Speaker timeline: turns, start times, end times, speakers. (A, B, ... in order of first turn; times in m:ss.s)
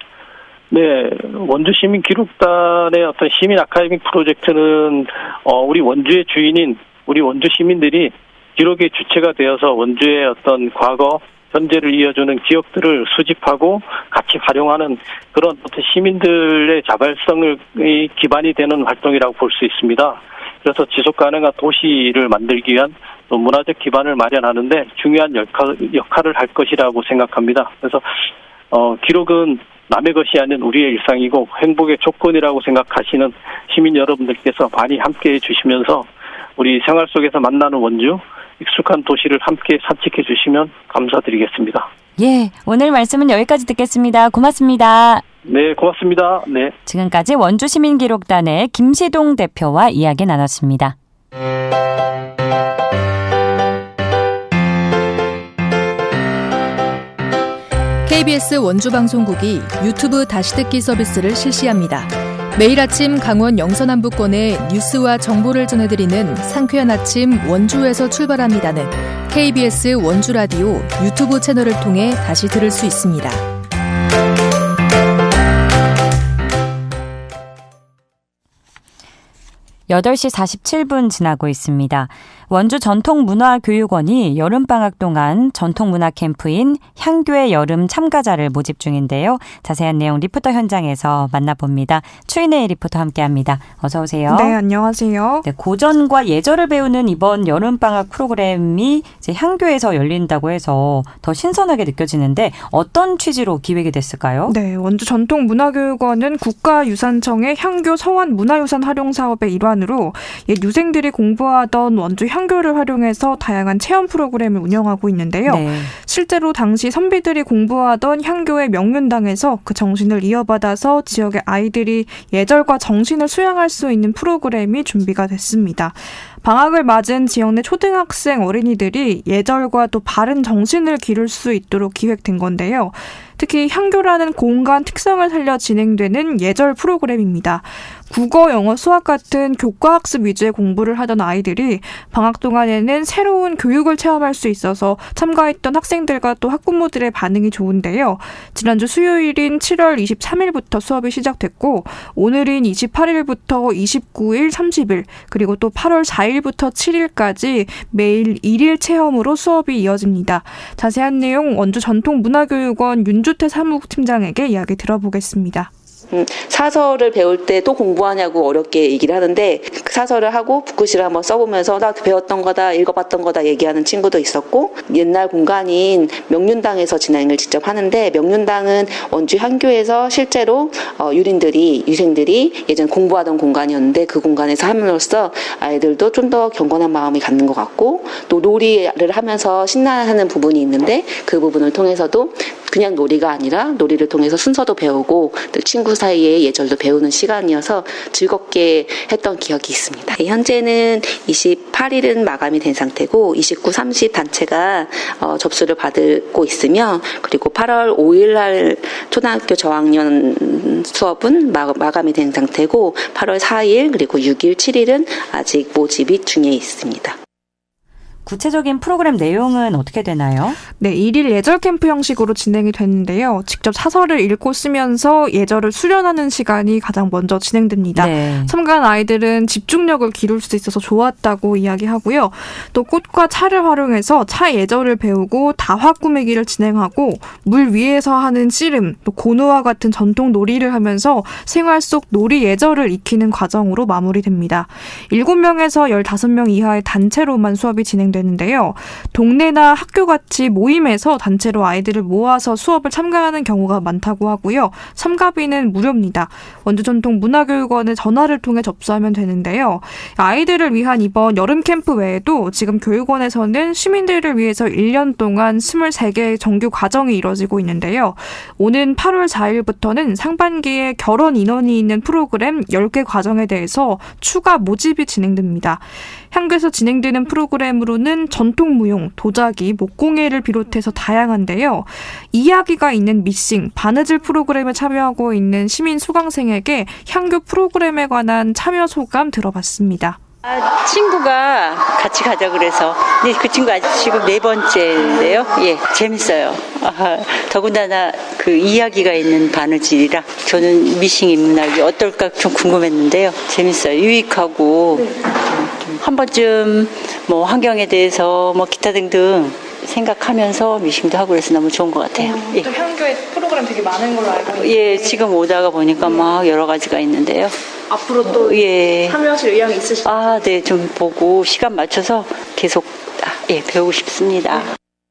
0:00.7-0:28.0 A
0:28.7-0:41.9 A
0:42.2-0:45.2 B
0:45.4-0:46.7 A
0:46.8-0:50.9 B
0:58.0-1:13.4 C
1:19.9-1:34.6 B
1:34.3-1:35.4 D
1:35.4-1:44.6 B
1:44.5-2:45.7 D
1:55.4-1:55.9 B
2:46.1-3:37.2 E
3:38.2-3:40.6 B
3:40.8-4:50.2 D
3:48.0-3:48.5 B
4:50.4-5:12.8 F
5:12.4-5:14.7 D
5:14.3-5:24.7 F